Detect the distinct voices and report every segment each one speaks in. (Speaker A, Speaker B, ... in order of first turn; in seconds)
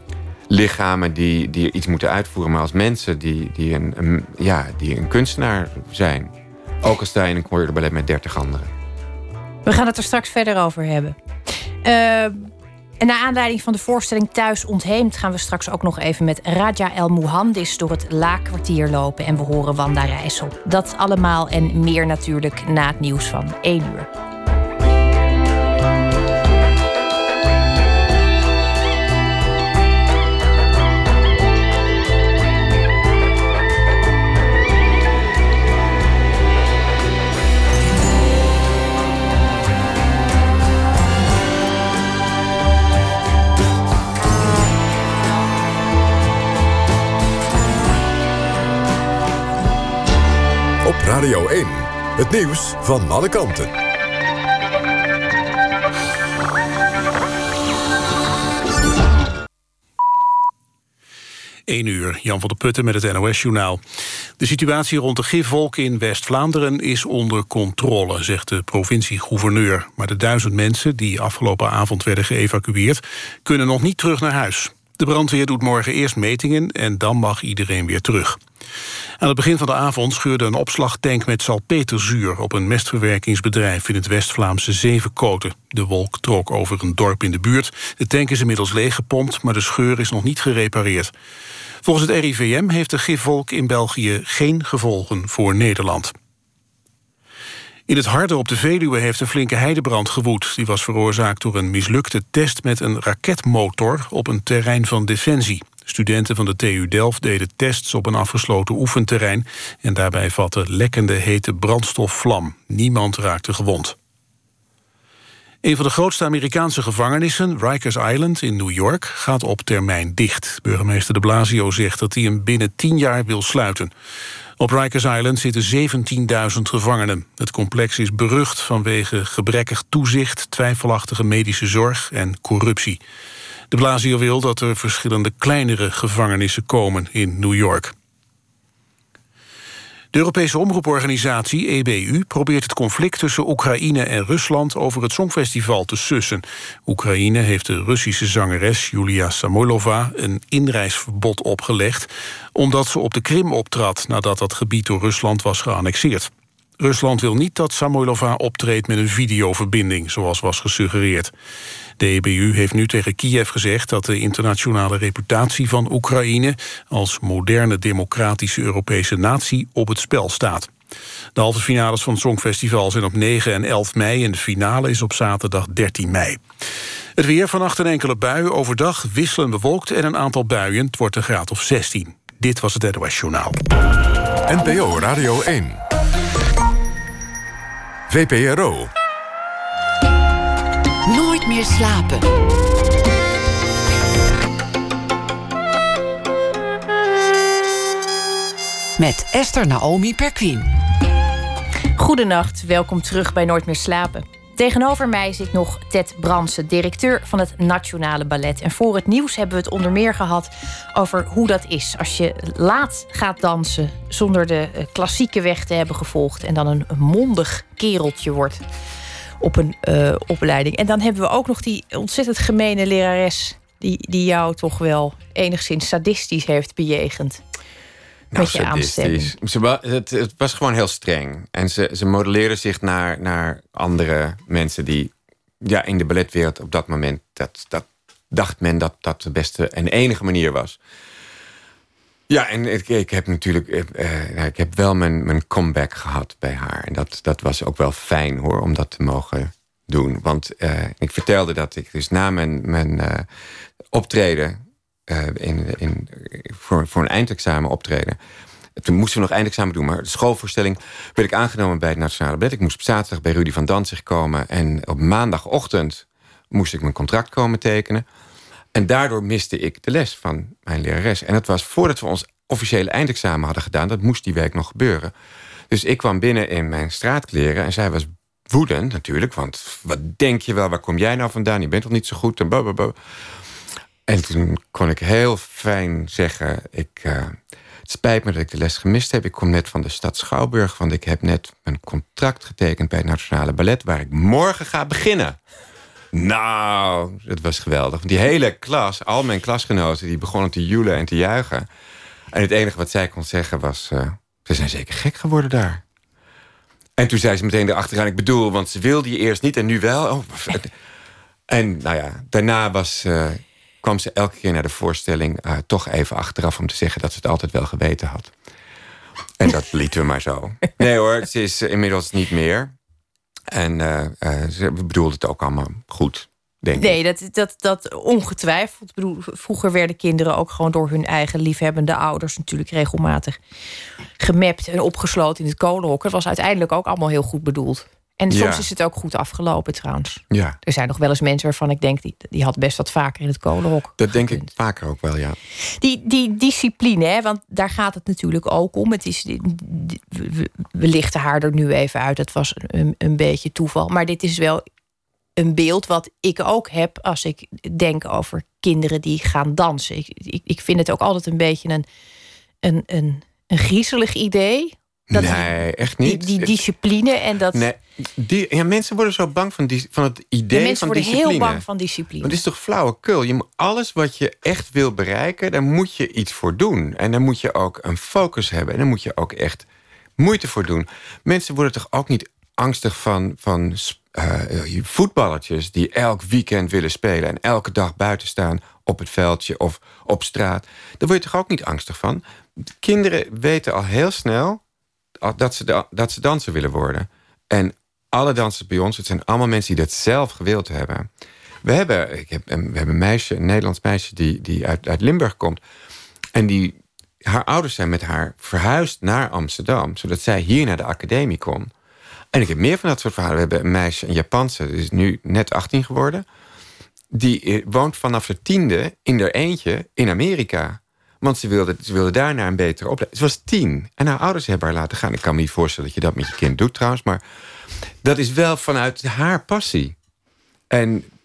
Speaker A: 0.5-8.7, 228.3-240.8, 242.3-253.3, 253.9-258.2, 258.8-268.1, 268.7-275.1, 275.7-283.0, 284.1-295.4, 296.1-301.7, 302.3-305.8, 307.0-310.7, 311.5-318.3, 319.4-322.7, 323.5-327.0, 338.3-338.7, 340.3-340.6, 344.0-345.4, 365.1-366.6, 367.5-371.6, 372.2-379.6, 380.2-394.6, 395.2-401.1, 401.6-405.6, 406.3-411.7, 412.3-416.2, 417.1-427.2, 428.0-430.0, 430.7-431.1
Speaker B: 9.6-11.2, 11.8-24.1, 202.0-218.6, 219.4-227.4, 228.4-229.3, 326.8-333.4, 334.2-344.5, 345.8-354.6, 355.4-361.9, 362.6-367.7, 370.5-372.4
Speaker C: 50.8-53.7, 184.5-185.8, 188.1-188.9
Speaker D: 61.7-63.8, 64.4-78.4, 79.2-91.1, 91.8-96.1, 97.9-114.0, 115.6-123.9, 124.6-133.0, 133.7-137.9, 140.1-161.3, 162.0-170.7, 171.3-176.4, 177.2-183.6
Speaker E: 191.1-192.3, 199.0-200.7